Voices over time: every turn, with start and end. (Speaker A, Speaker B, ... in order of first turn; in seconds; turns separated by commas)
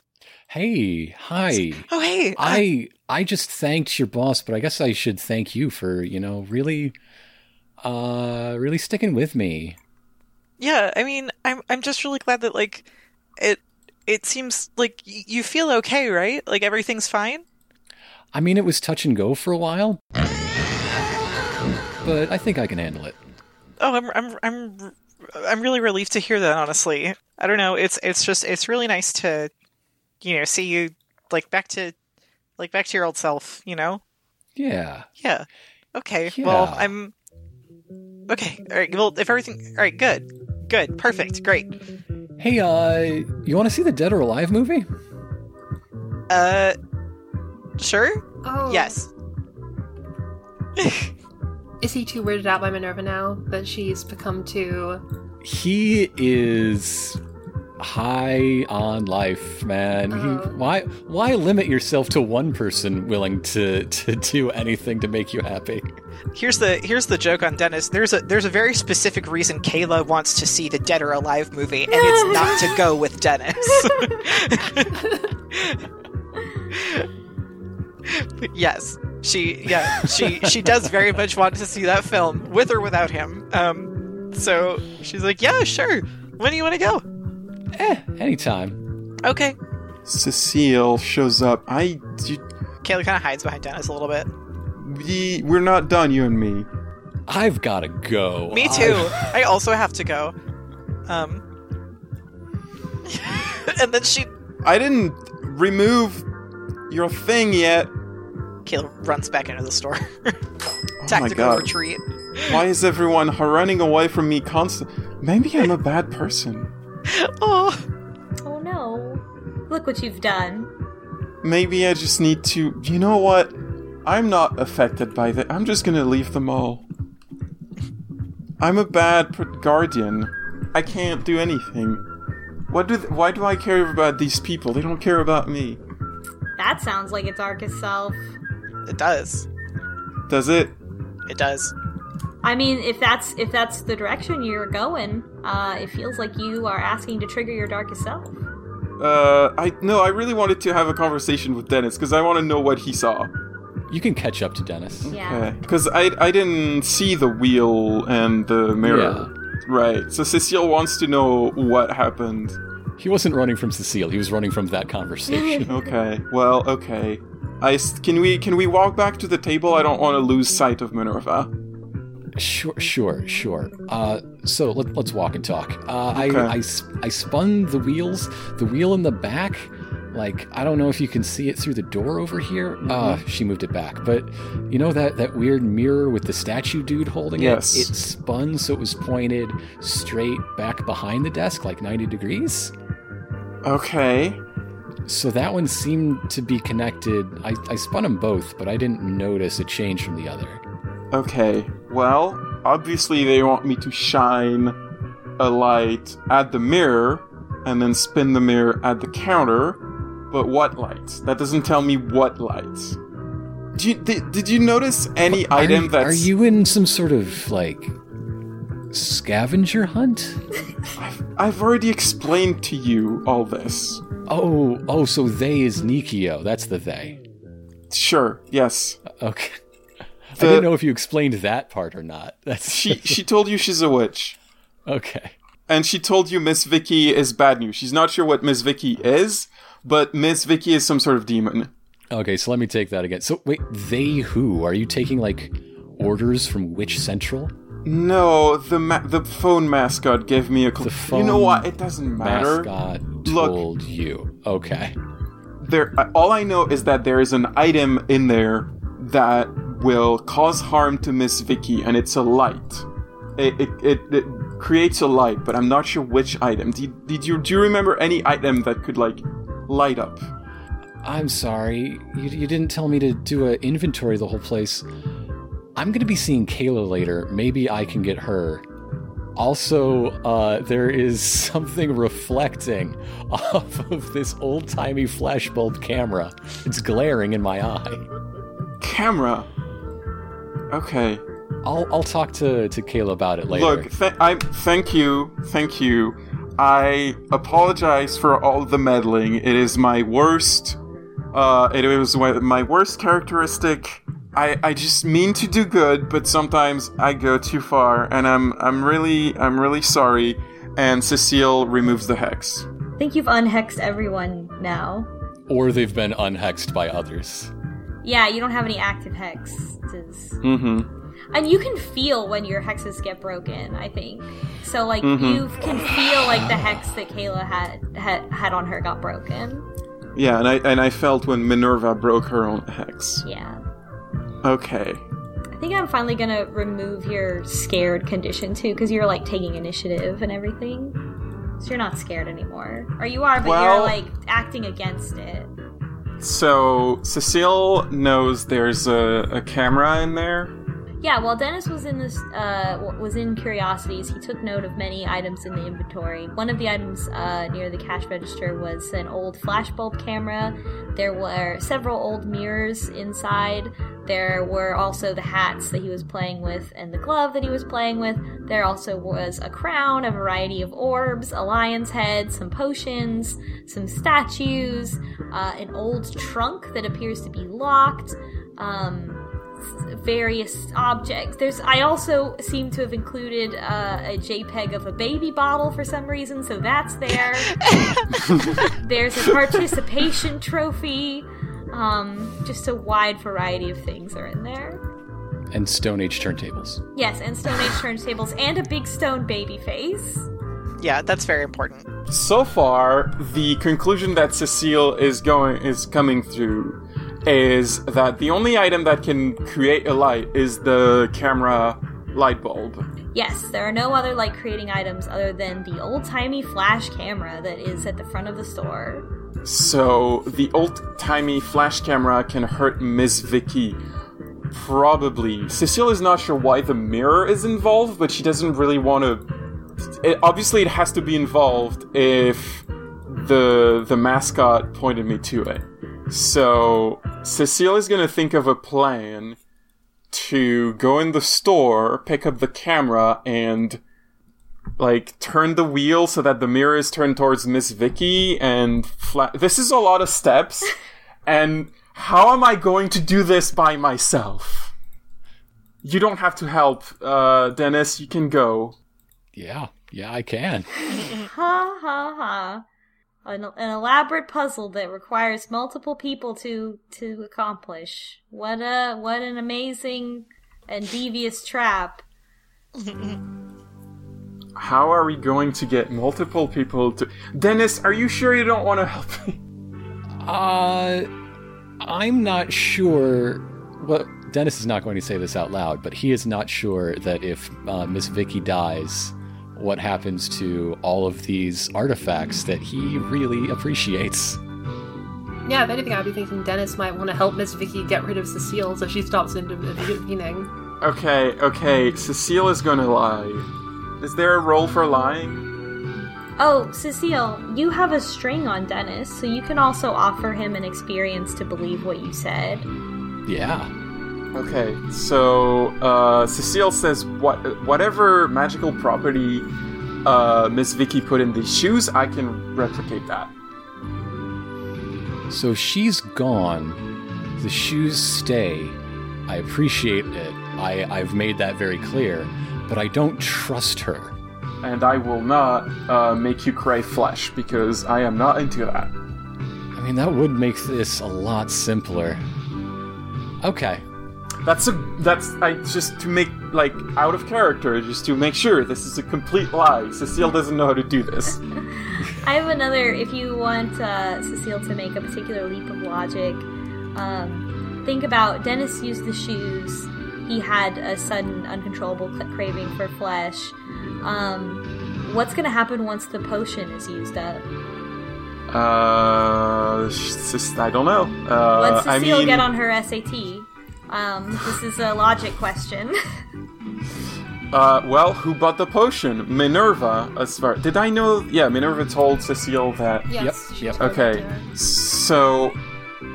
Speaker A: 0.5-6.9, Speaker B: 1.5-2.6, Speaker A: 7.8-9.8, Speaker B: 10.6-12.8, Speaker B: 13.4-17.4, Speaker A: 18.3-20.0, Speaker A: 22.0-23.2, Speaker B: 23.8-29.5, Speaker B: 30.2-31.9, Speaker B: 32.6-34.0, Speaker A: 34.5-35.1, Speaker B: 35.2-37.1, Speaker A: 36.3-36.9, Speaker B: 38.3-41.8, Speaker A: 42.4-44.9, Speaker B: 46.3-46.8, Speaker B: 47.8-49.1, Speaker C: 48.4-49.0, Speaker B: 50.8-51.1, Speaker C: 51.8-55.0, Speaker A: 55.4-57.2, Speaker A: 57.8-65.9, Speaker C: 60.1-60.5, Speaker B: 66.3-75.0, Speaker D: 71.9-72.8, Speaker D: 73.8-74.2, Speaker B: 75.5-75.8, Speaker B: 76.7-77.1, Speaker B: 78.1-87.0, Speaker A: 87.7-88.8, Speaker B: 89.2-89.5, Speaker E: 90.0-92.4, Speaker B: 92.8-94.3, Speaker E: 94.8-96.7, Speaker A: 97.3-99.3, Speaker B: 98.5-100.3, Speaker B: 101.1-101.4, Speaker B: 103.0-104.3, Speaker E: 104.6-106.2, Speaker E: 106.9-107.9, Speaker B: 108.6-110.4, Speaker E: 111.0-111.7, Speaker B: 111.0-112.5, Speaker E: 112.4-116.7, Speaker B: 117.1-117.8, Speaker D: 118.4-120.7, Speaker E: 121.4-126.8, Speaker E: 128.6-132.0, Speaker E: 132.7-135.8, Speaker D: 136.6-138.2, Speaker B: 138.8-139.4, Speaker E: 140.3-140.8, Speaker B: 141.3-141.7, Speaker D: 142.4-148.4, Speaker E: 149.0-153.3, Speaker A: 153.9-155.1, Speaker E: 155.1-162.6, Speaker D: 155.1-155.5, Speaker A: 158.8-159.3, Speaker A: 163.0-165.7, Speaker D: 165.3-165.7, Speaker E: 165.7-171.5, Speaker A: 172.3-192.7, Speaker E: 176.1-176.5, Speaker E: 182.9-183.2, Speaker E: 187.4-187.9, Speaker E: 193.6-194.4, Speaker A: 195.1-200.6, Speaker E: 201.1-204.8, Speaker E: 205.4-213.0, Speaker E: 213.7-216.3, Speaker A: 215.3-217.9, Speaker A: 218.9-220.4, Speaker E: 220.9-224.0, Speaker A: 224.3-227.2, Speaker E: 227.9-229.0, Speaker A: 229.1-229.6, Speaker A: 230.3-233.2, Speaker E: 230.3-230.7, Speaker E: 232.7-234.4, Speaker A: 234.9-235.3, Speaker E: 235.7-241.7, Speaker A: 242.1-247.5, Speaker E: 247.8-252.7, Speaker A: 250.8-251.7, Speaker A: 252.2-255.0, Speaker E: 253.2-253.6, Speaker E: 255.6-262.8, Speaker E: 263.4-270.2, Speaker A: 271.0-274.8, Speaker A: 275.8-278.6, Speaker A: 279.4-288.0, Speaker E: 288.8-289.5, Speaker E: 290.7-291.2, Speaker A: 291.6-293.9, Speaker E: 293.5-300.8, Speaker E: 301.3-312.7, Speaker D: 313.0-315.1, Speaker A: 315.5-317.5, Speaker D: 318.0-320.4, Speaker E: 320.4-320.9, Speaker D: 321.3-329.6, Speaker E: 325.0-325.5, Speaker E: 330.1-333.2, Speaker D: 333.2-333.6, Speaker E: 334.4-335.0, Speaker D: 335.5-341.0, Speaker D: 341.6-345.5, Speaker E: 343.4-344.0, Speaker E: 346.2-350.5, Speaker D: 351.0-387.6, Speaker B: 387.5-388.1, Speaker D: 388.6-394.8, Speaker A: 395.5-396.8, Speaker D: 396.9-400.3, Speaker B: 400.8-401.9, Speaker E: 402.1-412.8, Speaker D: 413.1-419.1, Speaker E: 419.4-423.8, Speaker E: 424.5-429.3, Speaker E: 430.0-439.4, Speaker E: 440.1-443.8, Speaker E: 444.8-454.7, Speaker E: 455.8-458.8, Speaker A: 459.3-460.7, Speaker D: 460.9-462.6, Speaker D: 463.2-472.0, Speaker B: 472.7-473.2, Speaker E: 474.6-479.4, Speaker A: 480.1-481.1, Speaker A: 481.8-494.4, Speaker C: 495.4-500.5, Speaker E: 500.8-503.5, Speaker E: 504.0-505.4, Speaker D: 506.4-512.7, Speaker A: 513.3-513.7, Speaker E: 514.3-519.5, Speaker E: 520.0-523.3, Speaker A: 525.3-526.8, Speaker A: 527.4-534.1, Speaker E: 534.6-538.9, Speaker A: 539.8-542.2, Speaker A: 543.4-543.8, Speaker E: 544.4-551.4, Speaker D: 551.8-567.5, Speaker E: 568.5-572.5, Speaker D: 571.5-576.0, Speaker E: 577.5-583.1, Speaker C: 583.1-584.5, Speaker A: 583.2-583.8, Speaker E: 583.7-585.6